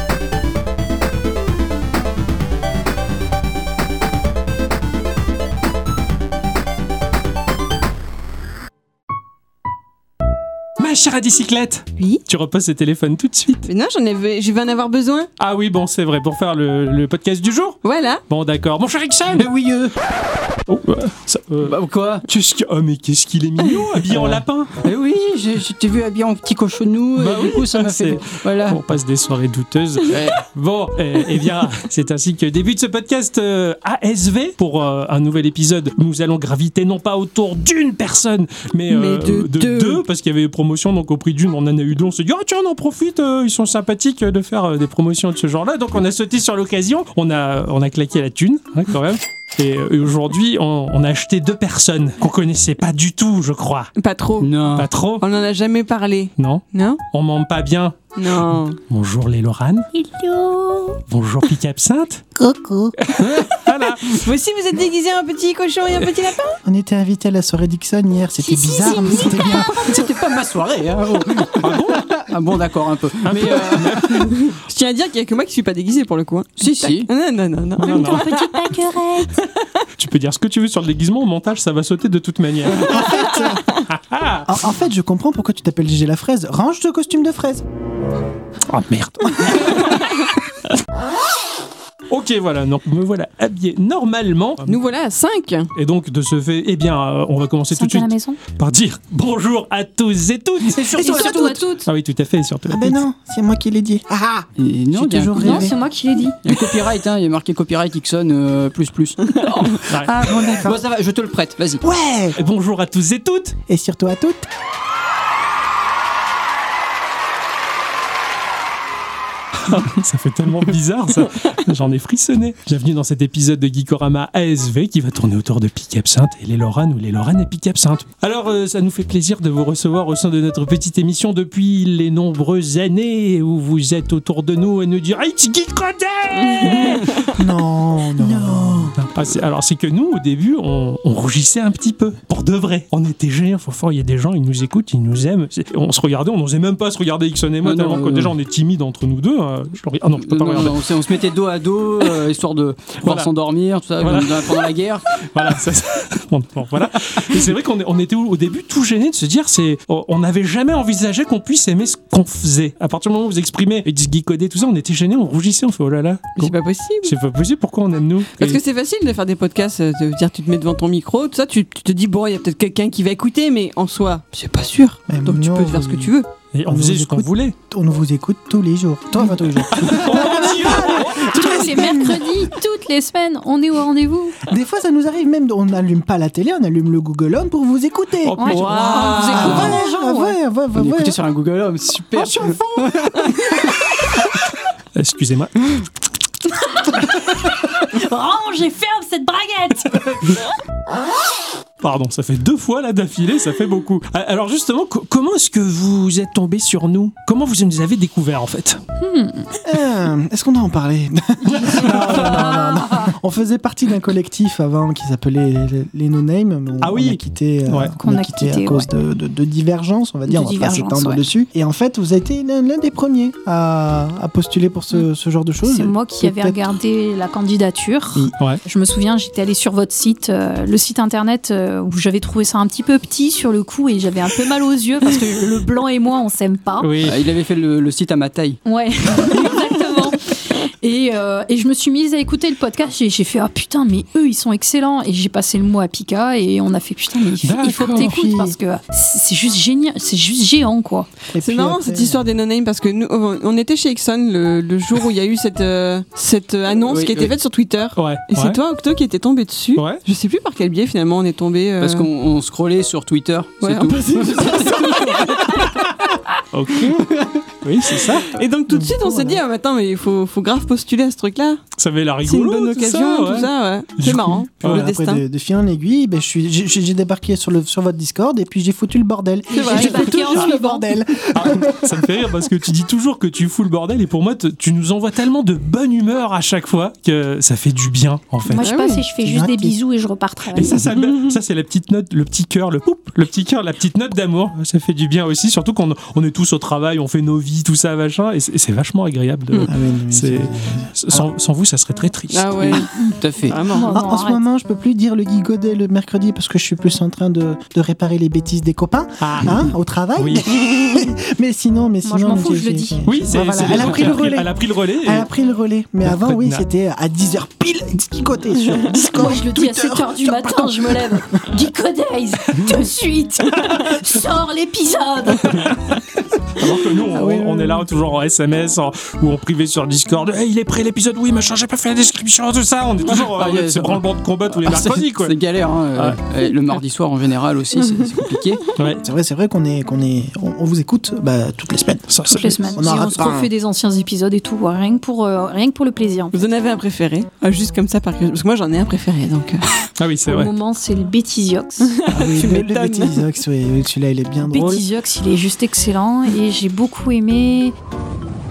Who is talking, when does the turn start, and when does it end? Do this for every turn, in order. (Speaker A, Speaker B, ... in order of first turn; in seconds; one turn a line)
Speaker A: 10.8-13.7
Speaker B: 13.7-15.3
Speaker A: 15.4-19.5
Speaker B: 17.8-18.2
Speaker C: 19.4-19.9
Speaker A: 20.7-24.8
Speaker C: 21.6-22.3
Speaker C: 24.1-28.8
Speaker A: 27.2-53.9
Speaker C: 30.1-30.4
Speaker B: 38.9-40.0
Speaker B: 54.0-54.5
Speaker C: 54.4-54.9
Speaker A: 54.8-55.2
Speaker B: 55.2-57.0
Speaker A: 56.4-59.9
Speaker B: 58.2-58.8
Speaker D: 59.9-61.0
Speaker A: 61.1-62.3
Speaker E: 62.4-63.0
Speaker A: 63.0-64.3
Speaker B: 64.1-66.6
Speaker E: 66.6-69.9
Speaker D: 68.4-70.0
Speaker C: 69.1-74.3
Speaker A: 71.6-72.2
Speaker A: 73.2-74.5
Speaker B: 74.3-78.7
Speaker C: 76.6-77.1
Speaker A: 77.8-78.3
Speaker D: 77.9-79.3
Speaker B: 79.4-79.7
Speaker A: 80.0-84.6
Speaker E: 82.9-83.6
Speaker E: 84.5-87.6
Speaker A: 88.7-90.8
Speaker A: 92.1-94.8
Speaker B: 94.7-95.7
Speaker A: 95.8-103.0
Speaker D: 97.7-98.4
Speaker E: 100.7-101.7
Speaker D: 100.9-101.9
Speaker E: 102.7-105.8
Speaker C: 104.6-105.7
Speaker D: 105.4-106.4
Speaker C: 106.4-111.8
Speaker A: 109.9-110.2
Speaker E: 110.0-110.8
Speaker E: 111.8-112.4
Speaker A: 112.4-113.6
Speaker E: 113.7-114.5
Speaker A: 119.6-137.3
Speaker B: 136.4-137.3
Speaker E: 136.6-139.0
Speaker A: 138.9-150.9
Speaker C: 147.6-148.3
Speaker C: 150.2-155.2
Speaker A: 153.0-153.3
Speaker A: 154.0-168.6
Speaker B: 166.4-167.2
Speaker B: 168.4-176.3
Speaker E: 175.1-176.1
Speaker A: 176.5-177.6
Speaker E: 176.7-182.3
Speaker A: 179.7-182.0
Speaker D: 180.1-184.4
Speaker E: 184.5-188.6
Speaker A: 188.2-189.8
Speaker D: 188.4-190.4
Speaker C: 188.6-189.8
Speaker E: 189.3-191.2
Speaker C: 190.8-193.5
Speaker A: 192.2-193.2
Speaker A: 194.9-195.8
Speaker D: 196.7-200.3
Speaker A: 201.8-208.8
Speaker D: 209.0-209.5
Speaker E: 209.6-226.6
Speaker A: 211.5-212.4
Speaker D: 212.0-213.1
Speaker A: 216.8-217.9
Speaker D: 218.0-218.9
Speaker D: 220.3-221.3
Speaker D: 225.6-236.9
Speaker A: 236.8-237.2
Speaker C: 237.0-238.6
Speaker D: 238.7-251.1
Speaker A: 247.4-248.1
Speaker E: 247.9-248.6
Speaker E: 251.3-252.3
Speaker B: 251.4-262.1
Speaker C: 256.8-257.3
Speaker A: 258.0-258.6
Speaker A: 259.8-260.0
Speaker C: 261.8-265.6
Speaker B: 263.6-265.6
Speaker A: 266.5-268.4
Speaker C: 266.9-267.4
Speaker B: 268.2-271.6
Speaker E: 268.7-269.4
Speaker A: 271.8-274.9
Speaker B: 272.2-275.2
Speaker E: 274.6-282.3
Speaker D: 279.5-280.9
Speaker B: 279.6-280.3
Speaker A: 281.3-288.7
Speaker D: 288.5-290.8
Speaker B: 288.6-289.0
Speaker E: 289.2-289.8
Speaker A: 290.6-302.9
Speaker E: 299.7-301.3
Speaker B: 302.3-302.9
Speaker D: 302.9-304.4
Speaker C: 303.1-303.6
Speaker B: 303.4-304.0
Speaker E: 303.9-321.4
Speaker A: 309.2-309.6
Speaker A: 310.2-310.5
Speaker D: 312.0-313.0
Speaker A: 313.1-315.3
Speaker A: 316.1-316.6
Speaker D: 319.0-325.8
Speaker A: 325.5-335.4
Speaker E: 327.2-327.7
Speaker C: 333.2-338.6
Speaker A: 335.9-336.2
Speaker A: 338.8-339.0
Speaker E: 339.0-343.5
Speaker A: 342.1-342.8
Speaker D: 342.3-346.4
Speaker B: 346.3-349.7
Speaker A: 350.0-350.5
Speaker D: 350.2-351.9
Speaker B: 351.8-353.2
Speaker E: 352.1-354.9
Speaker D: 354.4-357.8